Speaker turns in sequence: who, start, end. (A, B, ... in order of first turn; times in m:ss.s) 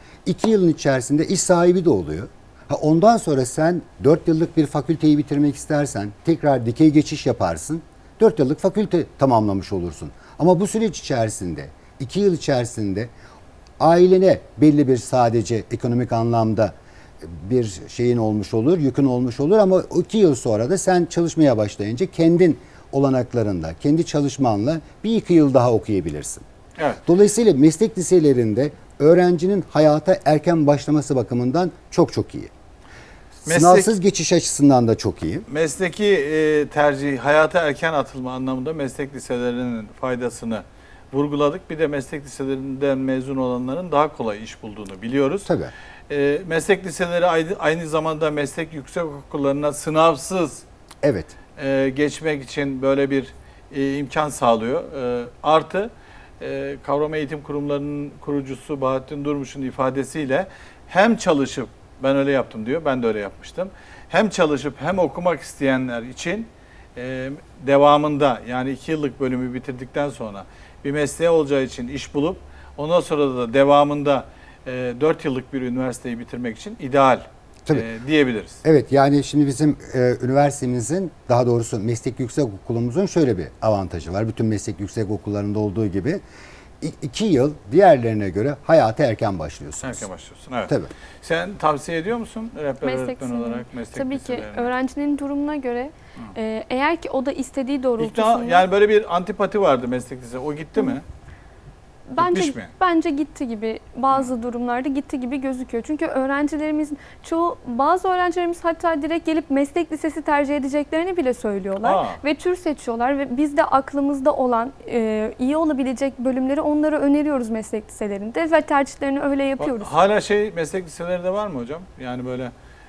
0:00.2-0:13.1 A
0:13.8-0:26.4 A
0:26.8-0:27.0 B
0:27.0-0:32.5 A
0:33.4-0:33.9 B
0:33.4-0:35.5 A
0:35.5-0:45.5 B
0:45.4-0:45.7 A
0:46.1-0:50.6 B
0:51.0-0:51.4 A
0:51.6-1:18.6 B
1:18.6-1:26.2 A
1:26.8-1:30.1 A
1:29.8-1:34.7 B
1:32.8-1:38.6 C
1:38.0-1:41.0 B
1:42.1-1:59.9 C
1:42.2-1:42.7 B
1:51.8-1:52.2 B
1:59.6-2:02.5 B